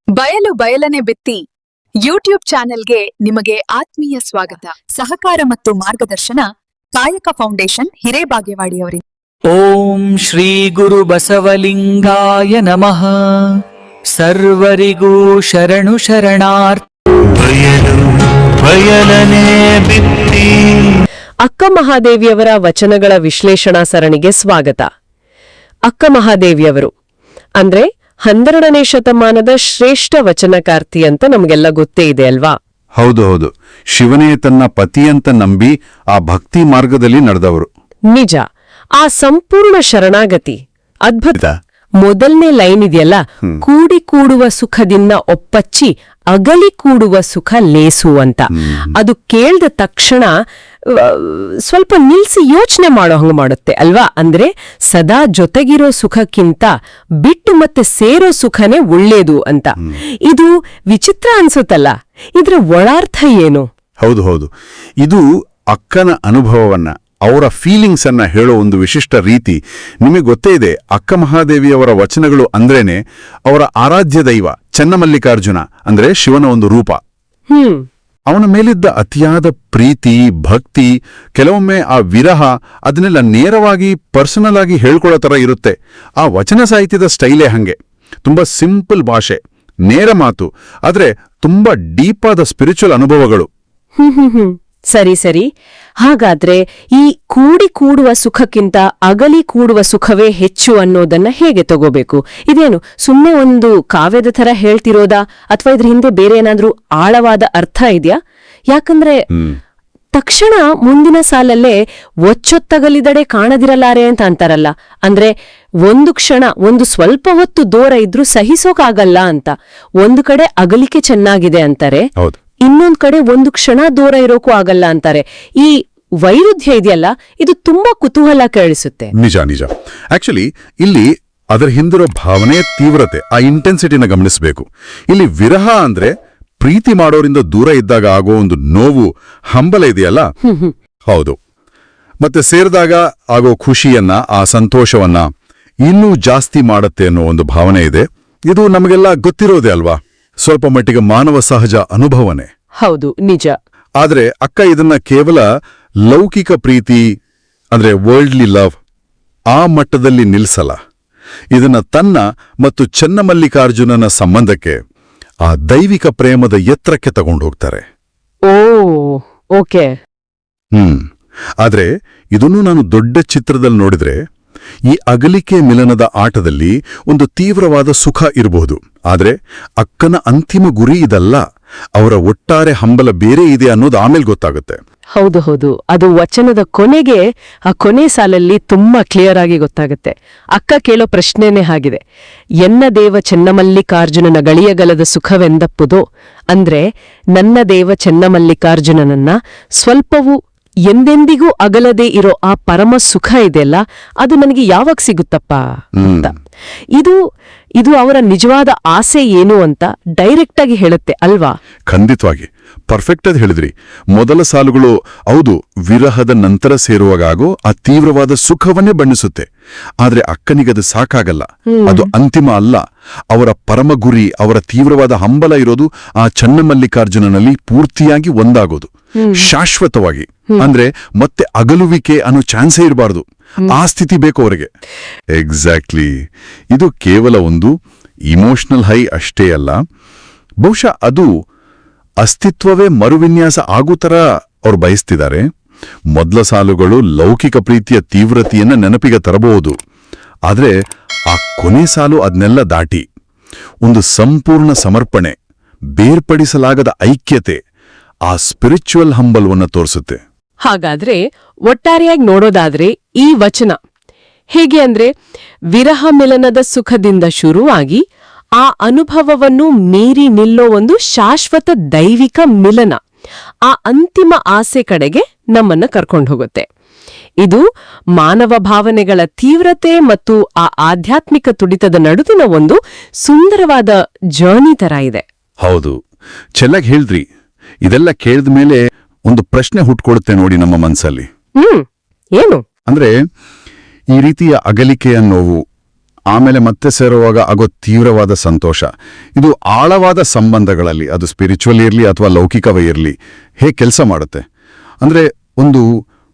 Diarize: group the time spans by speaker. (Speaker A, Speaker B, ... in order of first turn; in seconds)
Speaker A: 0.1-1.4, 2.0-6.5, 7.0-9.0
Speaker B: 9.5-13.6, 14.2-16.8
Speaker C: 17.4-18.1, 18.6-20.5
Speaker D: 21.4-24.9, 25.9-26.9, 27.6-32.5, 38.1-38.4, 39.0-41.4, 42.0-50.3, 50.9-56.7, 57.2-59.7, 60.3-63.7, 77.5-77.8, 94.0-95.5, 96.0-108.2, 108.7-109.2, 110.2-111.8, 112.3-115.3, 115.9-122.1, 122.7-129.1, 140.4-140.7, 152.8-153.6, 168.5-169.9, 185.2-192.0, 192.6-196.8, 197.4-200.4, 200.9-205.6, 207.8-211.5, 221.7-222.1, 229.2-229.5, 260.7-263.8, 264.6-265.1, 265.7-268.0, 268.6-273.0, 273.7-276.7, 278.2-285.2, 291.6-291.9
Speaker E: 33.0-37.7, 48.5-49.0, 64.0-64.5, 65.0-77.0, 78.3-93.5, 129.2-140.3, 141.1-141.4, 142.2-145.3, 145.9-152.5, 154.0-155.4, 156.1-157.0, 157.8-158.8, 159.5-160.8, 161.5-164.8, 165.5-167.8, 170.7-171.0, 171.6-174.2, 174.9-181.4, 182.0-184.8, 206.0-206.3, 211.9-219.5, 220.0-222.8, 223.3-234.7, 235.3-236.1, 236.7-237.7, 238.3-239.8, 240.6-241.3, 242.2-245.5, 246.2-249.8, 250.5-250.8, 251.3-253.0, 253.8-255.4, 256.0-257.6, 258.3-260.2, 285.6-286.0, 286.6-287.2, 287.9-291.3, 292.9-293.1, 294.1-295.6, 296.3-304.4, 305.0-305.9